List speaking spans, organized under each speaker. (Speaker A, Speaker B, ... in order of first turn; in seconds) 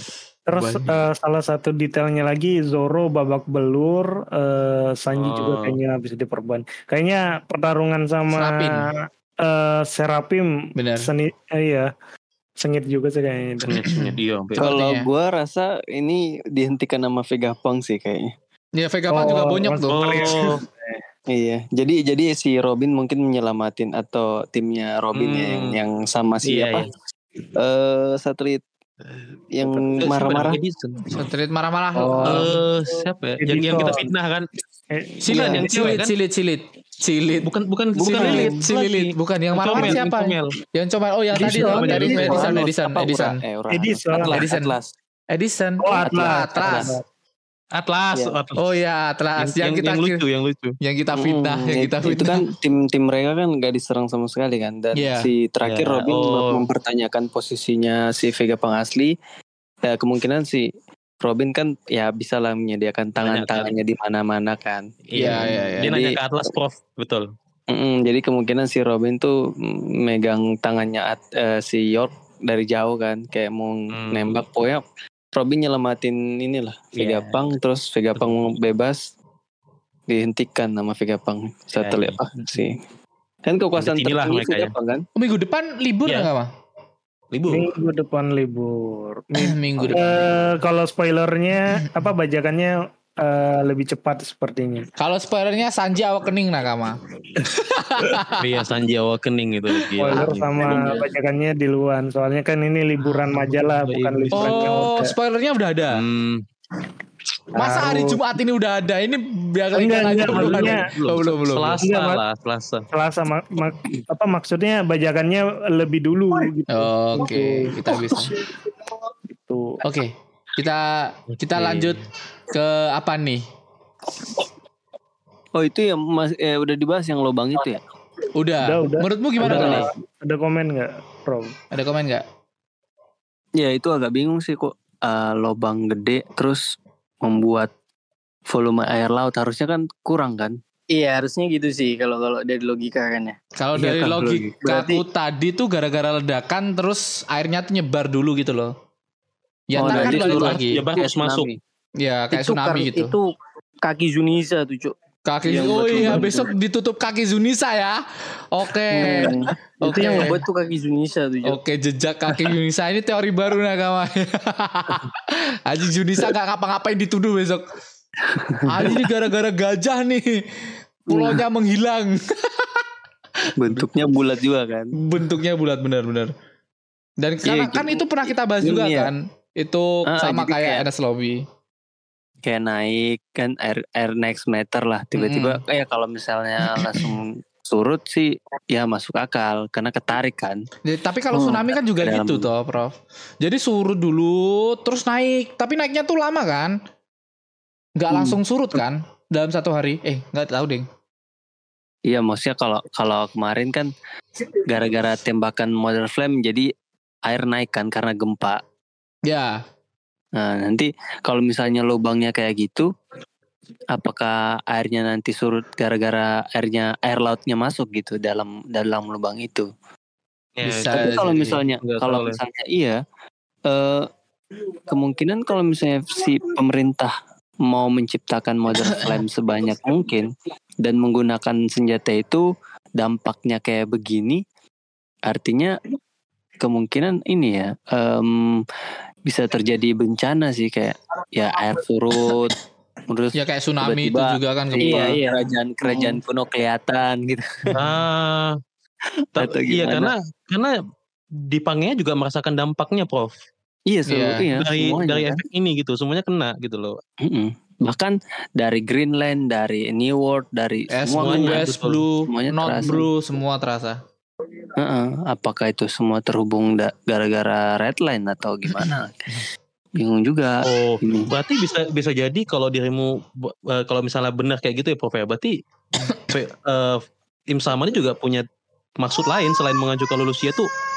Speaker A: 0.5-8.9, 9.4-10.5, 11.0-11.9, 12.6-13.9, 19.1-21.0, 31.9-32.6, 33.4-34.1, 34.9-35.9, 41.4-42.4, 43.7-44.4, 45.8-47.0, 87.5-94.9, 100.0-105.2, 107.5-108.2, 109.7-110.8, 111.8-112.2, 112.9-118.5, 119.3-119.8, 128.6-131.5
Speaker B: 0.6-1.0, 8.3-8.9, 10.8-11.1, 13.9-15.1, 18.8-20.3, 31.1-32.5, 35.2-43.4, 44.3-44.8, 45.3-46.9, 48.6-50.2, 50.8-52.5, 55.0-55.3, 65.2-65.9, 85.2-86.5, 89.4-90.4, 95.0-98.5, 104.3-106.0, 107.5-111.8, 116.7-118.4, 119.8-122.0, 122.5-123.4, 128.3-129.9, 131.7-132.2, 143.6-148.7, 149.7-150.8, 152.0-153.2, 155.3-158.0, 158.5-160.4, 161.4-167.7, 168.7-170.4, 171.1-172.8, 175.0-176.3, 177.2-181.4, 185.2-185.6, 186.8-187.1, 190.8-196.8, 198.0-200.9, 209.3-209.6, 220.7-221.3, 228.8-229.2, 243.3-245.4, 254.1-254.5, 260.9-264.0
Speaker C: 5.1-5.8, 13.7-14.7, 19.9-20.6, 25.1-25.8, 26.4-26.9, 29.1-31.3, 32.2-34.5, 35.3-36.1, 37.4-40.6, 41.4-42.6, 44.2-44.9, 47.8-48.6, 49.4-50.8, 55.6-56.6, 63.2-63.7, 65.1-67.3, 73.9-74.4, 77.0-77.6, 78.2-78.4, 81.8-82.6, 83.8-84.7, 87.3-87.7, 98.4-100.9, 103.2-104.9, 105.9-106.4, 110.2-112.9, 121.3-122.1, 129.4-129.9, 149.8-151.5, 220.6-222.4, 244.8-245.2, 247.7-248.6, 249.4-250.8, 251.4-253.3, 254.6-257.0, 261.2-262.1, 270.6-275.5, 276.1-278.4, 279.0-280.7
Speaker D: 14.6-18.3, 21.3-26.9, 27.6-28.6, 29.5-30.6, 35.3-35.6, 38.0-38.7, 41.4-44.4, 46.0-46.9, 51.2-59.1, 59.8-60.7, 61.2-66.2, 67.7-74.8, 75.3-79.1, 80.1-82.8, 83.5-85.1, 100.1-100.9, 125.5-127.8, 133.6-136.6, 137.2-137.7, 138.5-140.6, 143.8-145.0, 149.8-151.6, 155.6-156.5, 158.9-160.5, 168.2-169.0, 171.1-171.4, 173.6-174.9, 177.4-179.1, 180.1-180.9, 182.4-190.7, 191.3-192.5, 198.1-198.4, 202.1-203.9, 204.5-206.7, 207.3-208.6, 210.4-212.9, 213.9-219.7, 220.8-223.0, 223.7-224.1, 224.9-227.1, 227.7-230.3, 230.8-232.5, 233.0-234.4, 235.3-235.8, 236.6-238.7, 239.3-242.6, 243.1-247.8, 249.4-250.1, 253.9-255.4, 257.2-261.7, 262.3-263.1, 264.8-269.4, 270.0-271.3
Speaker E: 140.9-143.4, 152.3-153.3, 153.8-154.9, 155.5-156.4, 160.0-161.6